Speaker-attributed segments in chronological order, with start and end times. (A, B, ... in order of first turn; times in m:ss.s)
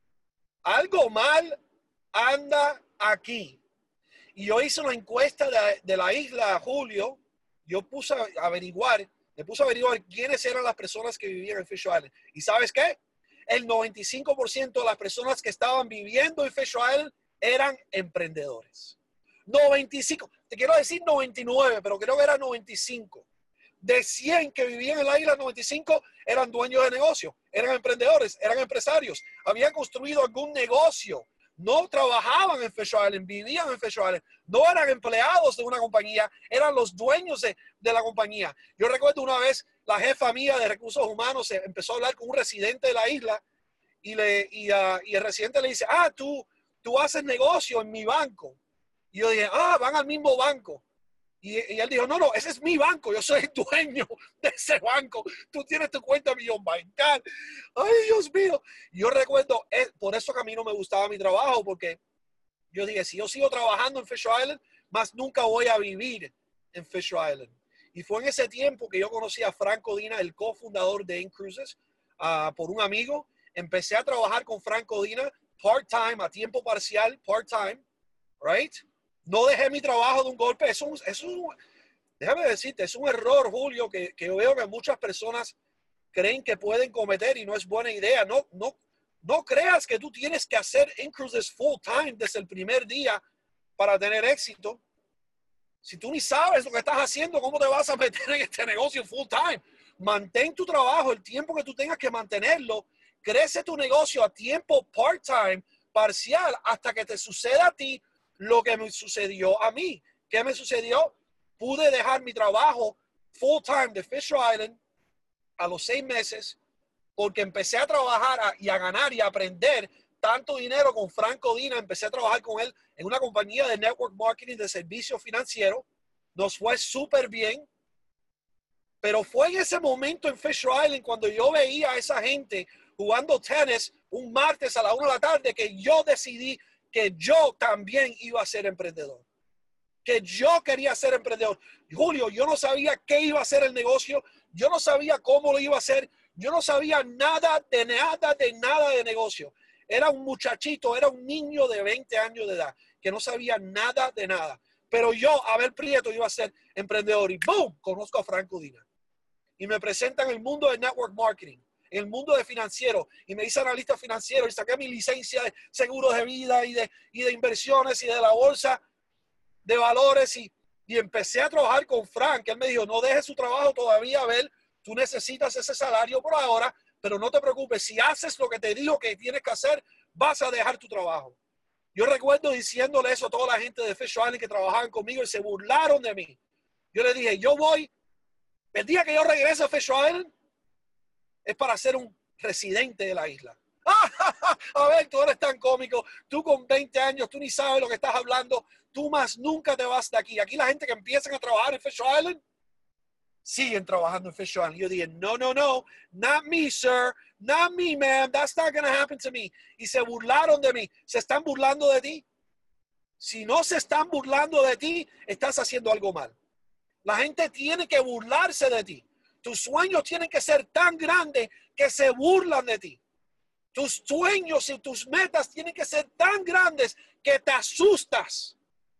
0:00.6-0:01.6 A
0:02.1-0:03.6 A
0:04.3-0:23.3 A
0:23.8-0:43.4 A
0:44.0-0:48.6 A
0:49.1-0:50.8 A
0:51.4-0:57.2 A
0:57.8-1:02.0 A
1:02.7-1:17.8 A
1:18.4-1:21.6 A
1:22.2-1:25.6 A
1:26.1-1:33.2 A
1:33.8-1:34.8 A
1:35.8-1:54.8 A
1:55.6-1:56.6 A
1:57.2-2:07.7 A
2:09.0-2:19.2 A
2:20.0-2:38.8 A
2:39.6-2:48.8 A
2:49.6-3:01.4 A
3:02.0-3:06.4 A
3:06.9-3:07.9 A
3:08.7-3:10.3 A
3:11.4-3:22.4 A
3:23.4-3:32.2 A
3:33.2-3:36.4 A
3:37.0-3:43.0 A
3:43.7-3:48.6 A